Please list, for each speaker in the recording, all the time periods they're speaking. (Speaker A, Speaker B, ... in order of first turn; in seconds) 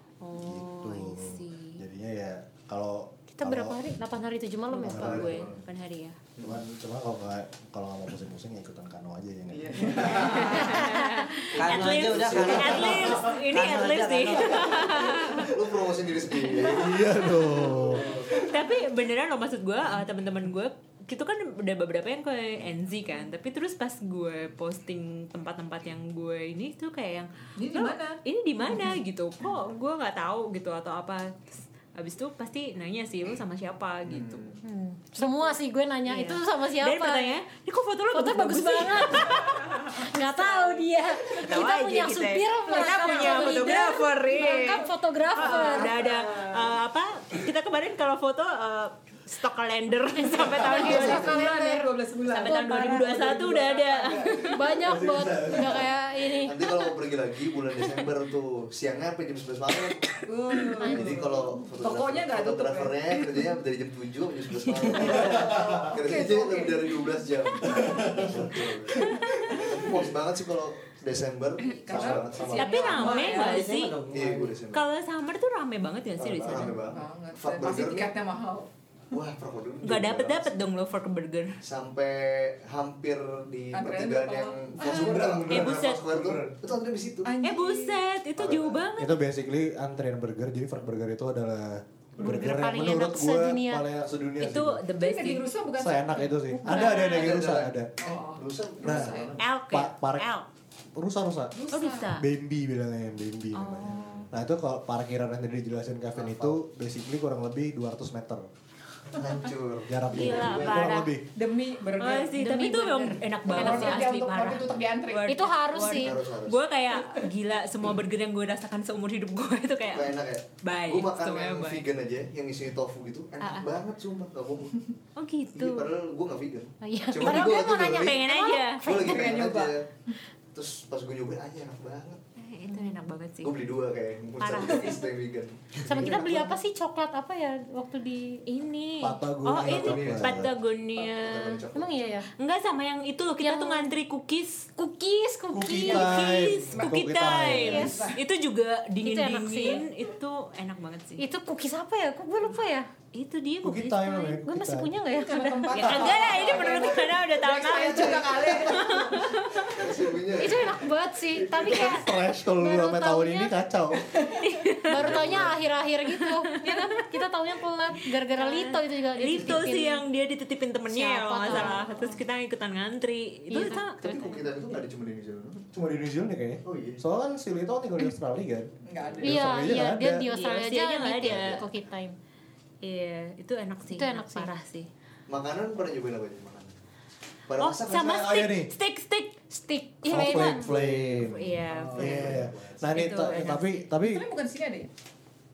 Speaker A: 0.2-1.8, 4.7-6.2, 10.0-15.6, 18.1-34.5, 35.2-35.5, 36.1-51.4, 52.3-54.6, 69.0-69.7, 72.5-73.9, 74.7-76.8, 79.8-81.5, 85.5-86.0, 87.4-89.2, 92.3-92.6, 94.4-95.5, 96.6-97.4, 99.4-100.5, 101.7-102.2, 103.5-104.3, 110.1-111.1, 112.0-121.8, 123.4-123.7, 125.2-125.9, 127.2-128.9, 132.4-133.5, 134.4-135.0, 138.5-141.6, 142.4-144.7, 145.7-151.2, 153.1-154.4, 155.7-159.8, 164.4-165.2, 166.1-167.0, 168.1-174.2, 180.3-181.6, 182.8-184.9, 187.6-189.4, 191.3-192.4, 192.9-193.6
Speaker B: 0.3-3.8, 4.8-5.4, 6.4-10.7, 16.6-18.0, 54.8-55.9, 68.0-68.3, 71.9-72.5, 84.8-86.5, 89.0-94.8, 95.8-97.9, 98.8-99.1, 99.7-100.3, 101.0-101.5, 102.1-108.5, 109.8-111.2, 139.0-140.5, 145.5-148.0, 153.6-154.9, 161.3-164.1, 165.2-165.5, 175.7-180.2, 188.0-188.7, 190.1-194.2
Speaker C: 3.3-5.4, 34.6-37.3, 38.1-46.0, 50.2-53.2, 54.2-56.8, 60.8-61.1, 92.2-93.8, 112.4-114.6, 115.3-116.2, 126.8-129.5, 132.7-133.0, 135.8-138.4, 141.7-142.3, 143.4-143.9, 144.8-146.4, 149.0-149.8, 151.2-152.9, 154.3-156.9, 160.3-163.5, 164.9-170.0, 170.9-172.2, 173.5-174.5, 179.2-182.1, 183.9-184.5, 189.5-190.7
Speaker D: 4.9-5.6, 6.4-6.6, 9.5-10.9, 11.6-13.2, 15.2-18.5, 34.0-34.6, 50.8-51.2, 56.4-60.2, 60.8-73.2, 74.1-74.8, 76.2-78.1, 79.1-80.5, 81.6-87.3, 88.3-88.9, 96.8-99.4, 103.9-104.3, 106.1-106.6, 109.1-111.0, 115.9-116.6, 119.9-124.7, 125.5-128.2, 128.8-129.9, 130.5-132.2, 133.4-136.5, 139.6-141.9, 157.7-158.9, 159.6-160.9, 165.0-165.5, 173.8-175.7, 176.6-177.0, 179.0-179.5, 181.2-181.6, 185.3-186.7, 187.5-188.4, 190.2-193.1
Speaker E: 10.0-10.5, 27.6-28.2, 42.7-46.7, 50.7-54.5, 60.3-63.4, 65.0-67.2, 71.6-73.7, 76.5-78.7, 83.7-85.2, 87.2-88.0, 94.9-97.0, 98.0-99.4, 101.5-102.1, 111.3-115.5, 129.1-129.7, 147.7-148.2, 155.1-159.3, 178.8-179.3, 193.2-194.9
Speaker F: 11.6-15.1, 73.3-74.5